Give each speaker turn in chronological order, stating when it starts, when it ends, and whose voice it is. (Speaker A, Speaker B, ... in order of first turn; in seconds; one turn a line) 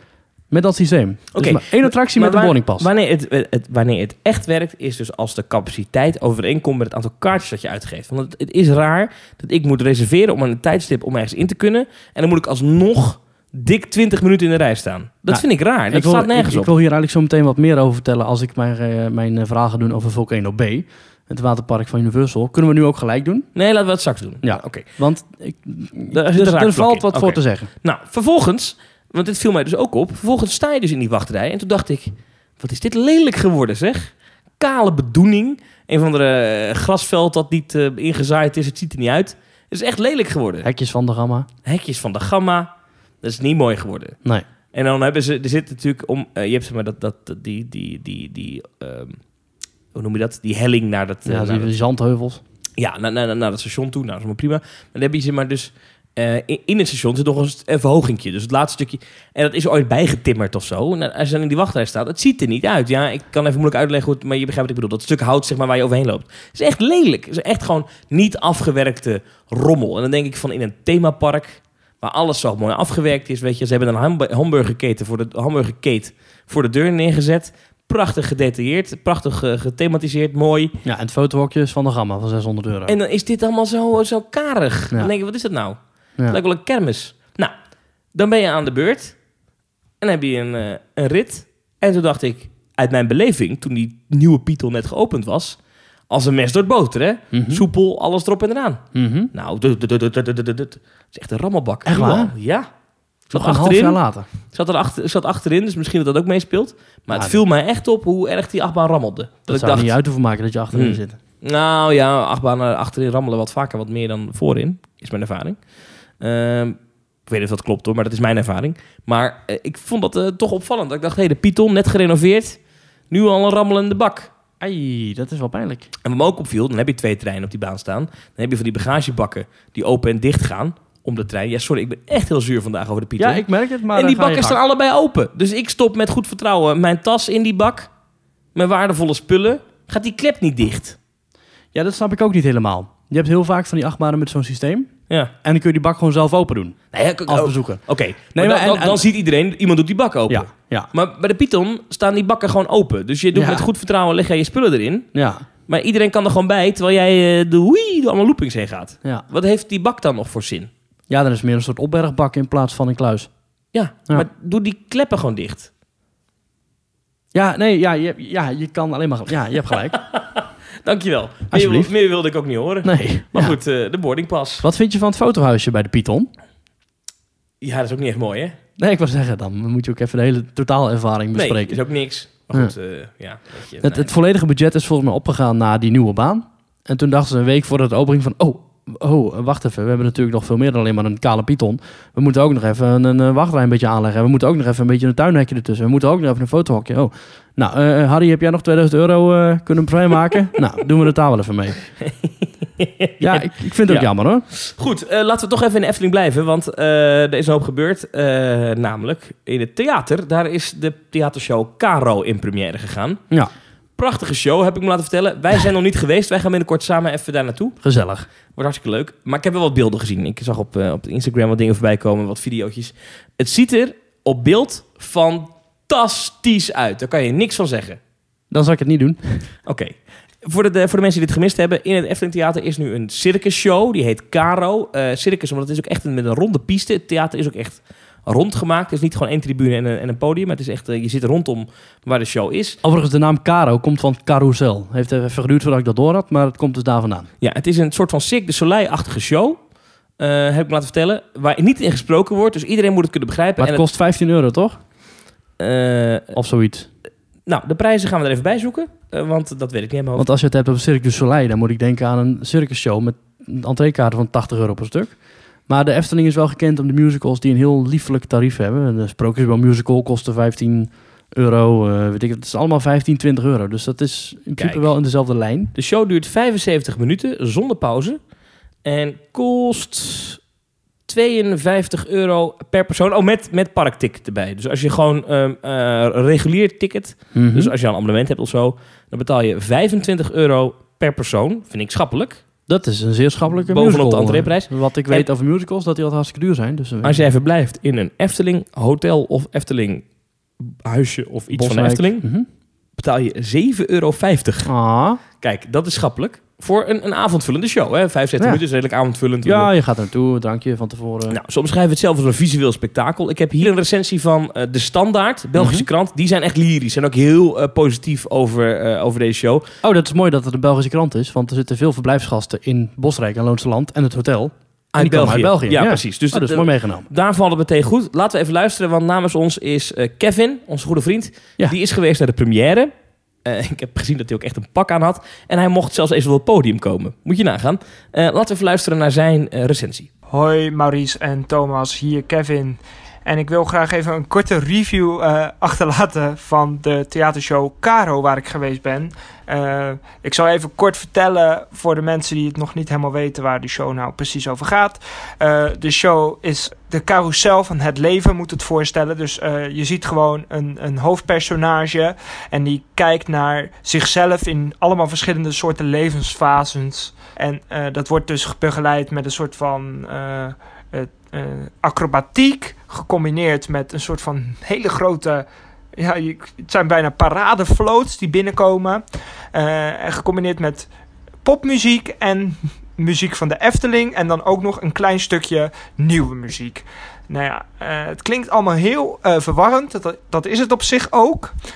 Speaker A: 0.5-2.9
Speaker B: 1.3-16.7
Speaker A: 15.3-23.5
Speaker B: 23.5-24.9
Speaker A: 24.4-27.7
Speaker B: 26.1-40.7
Speaker A: 40.6-41.5
Speaker B: 41.6-42.7
Speaker B: 43.2-44.2
Speaker B: 44.7-49.2
Speaker B: 49.9-51.7
Speaker A: 51.2-52.4
Speaker B: 52.8-80.7
Speaker A: 80.8-82.9
Speaker B: 82.9-85.8
Speaker B: 86.3-87.5
Speaker B: 88.1-89.2
Speaker B: 90.0-95.6
Speaker B: 96.1-102.7
Speaker A: 97.3-97.6
Speaker A: 98.9-99.3
Speaker A: 101.8-102.3
Speaker B: 103.3-104.0
Speaker A: 103.3-104.2
Speaker B: 104.5-109.9
Speaker A: 107.1-107.4
Speaker A: 109.5-111.2
Speaker B: 110.7-115.6
Speaker B: 116.2-122.6
Speaker B: 123.1-124.3
Speaker A: 124.6-125.9
Speaker B: 126.0-137.9
Speaker A: 133.2-134.6
Speaker B: 138.5-141.0
Speaker A: 141.7-144.9
Speaker A: 145.4-147.8
Speaker B: 146.9-155.1
Speaker A: 148.3-149.0
Speaker A: 150.3-150.9
Speaker A: 153.3-153.7
Speaker A: 155.1-155.4
Speaker B: 155.7-160.7
Speaker A: 161.1-163.3
Speaker B: 163.7-165.7
Speaker A: 167.3-170.0
Speaker B: 169.9-174.7
Speaker A: 171.5-171.9
Speaker A: 172.8-173.6
Speaker A: 174.6-176.3
Speaker B: 177.6-178.6
Speaker A: 178.8-181.8
Speaker B: 181.3-184.1
Speaker A: 183.8-201.8
Speaker B: 202.0-213.2
Speaker A: 203.2-204.4
Speaker B: 214.0-217.8
Speaker A: 217.8-218.2
Speaker B: 218.5-228.0
Speaker A: 228.5-229.5
Speaker B: 229.7-242.8
Speaker A: 242.8-247.3
Speaker B: 247.4-249.6
Speaker B: 250.2-253.8
Speaker A: 253.6-254.8
Speaker B: 255.6-256.3
Speaker A: 256.3-256.9
Speaker B: 257.5-260.3
Speaker A: 260.2-275.7
Speaker B: 274.6-274.9
Speaker B: 275.7-278.2
Speaker B: 278.8-280.4
Speaker B: 281.1-292.4
Speaker A: 287.3-287.7
Speaker A: 292.7-297.2
Speaker B: 293.6-295.2
Speaker B: 297.0-300.1
Speaker B: 300.6-302.2
Speaker A: 301.5-302.4
Speaker B: 303.0-304.7
Speaker A: 304.6-305.2
Speaker B: 305.4-309.7
Speaker A: 309.4-311.4
Speaker B: 311.3-319.7
Speaker A: 315.6-315.9
Speaker A: 319.8-327.1
Speaker B: 324.9-332.9
Speaker B: 333.4-340.1
Speaker C: 340.3-380.9
Speaker C: 381.4-391.5